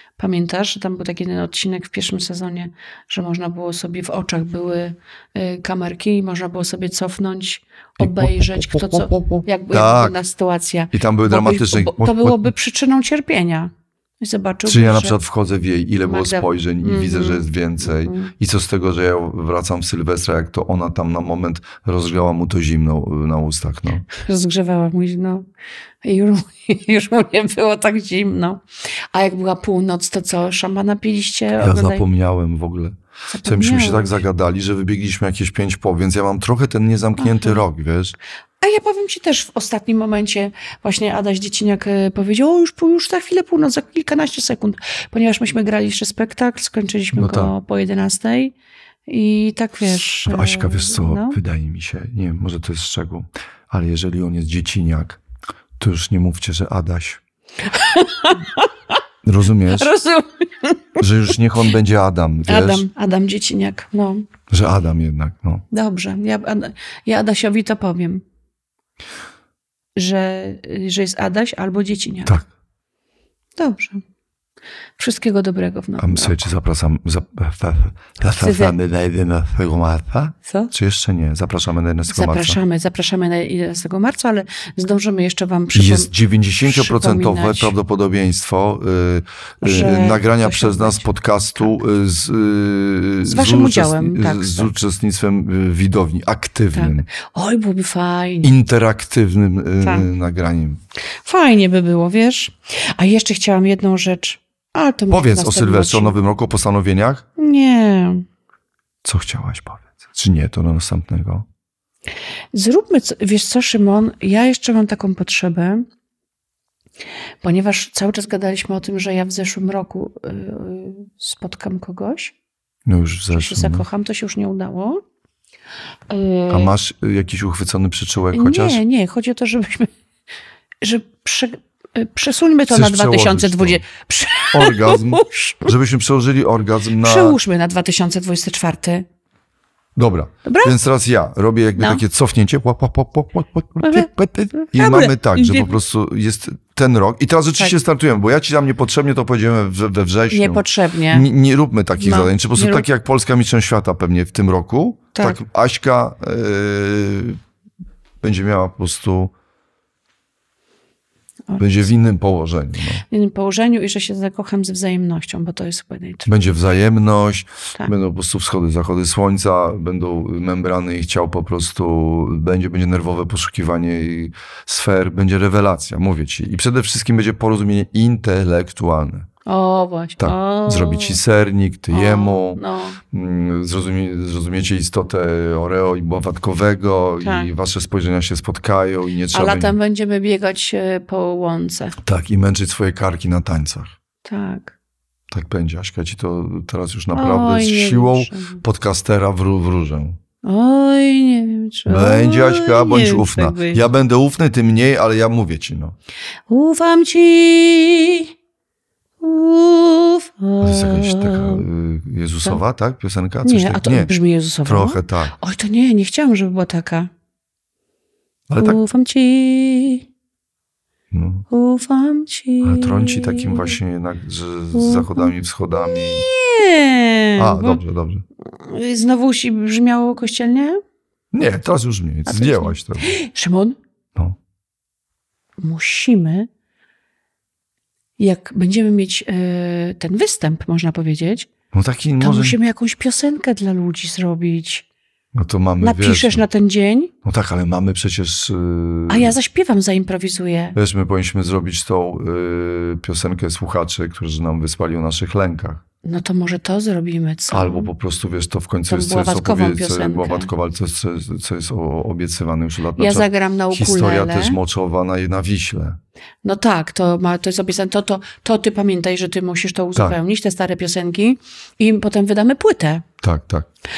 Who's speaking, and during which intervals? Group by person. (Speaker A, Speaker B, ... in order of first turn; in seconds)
Speaker A: 0.2-15.2, 16.1-18.3, 24.1-25.4, 26.0-28.6, 29.1-32.0, 33.3-34.1, 37.2-37.6, 38.6-48.5, 49.1-51.4, 57.6-58.7, 59.7-61.0, 62.5-64.3, 65.7-68.2, 70.0-72.4, 73.6-74.0, 75.0-76.4, 78.3-78.7, 80.5-80.7, 82.1-86.1, 86.6-87.7, 89.6-91.1, 93.2-94.8, 96.7-98.5, 99.8-100.1, 101.2-106.2, 107.4-108.2, 112.5-115.8, 117.4-122.3, 123.3-125.0, 126.1-126.7, 128.3-129.9, 130.8-135.7, 137.0-139.0, 140.4-140.8, 141.8-142.0, 143.8-145.8, 150.3-151.3, 152.0-152.8, 161.5-161.9, 163.1-166.3, 179.4-181.2, 181.9-183.0, 187.2-187.5, 189.3-191.9, 194.2-194.7, 197.1-198.6, 200.4-203.8, 206.5-208.3, 209.2-211.7, 213.4-217.1, 218.6-220.0, 221.5-223.8, 224.7-227.8, 228.6-230.8, 232.2-233.8, 235.6-236.5, 238.2-241.5, 242.2-244.8, 245.8-247.1, 249.1-250.8, 256.0-257.9, 258.9-260.5, 262.9-264.6, 266.4-273.0
Speaker B: 8.0-10.2, 10.9-12.5, 14.7-24.1, 31.6-38.1, 47.1-47.5, 50.2-55.2, 55.8-57.2, 59.2-59.9, 61.0-62.8, 64.5-65.6, 76.0-82.6, 85.7-97.1, 98.4-100.8, 105.1-107.2, 109.0-111.5, 122.8-123.8, 126.5-128.8, 132.7-133.8, 134.5-137.4, 139.9-157.4, 158.2-159.3, 161.6-163.0, 166.3-179.3, 180.2-189.8, 192.0-193.9, 195.3-200.2, 201.9-205.9, 210.6-214.1, 214.6-215.3, 218.5-218.8, 221.1-221.5, 222.6-226.2, 227.4-228.2, 231.3-233.1, 241.7-242.6, 245.3-246.4, 247.2-249.3, 250.7-255.8, 257.5-266.0, 273.2-273.7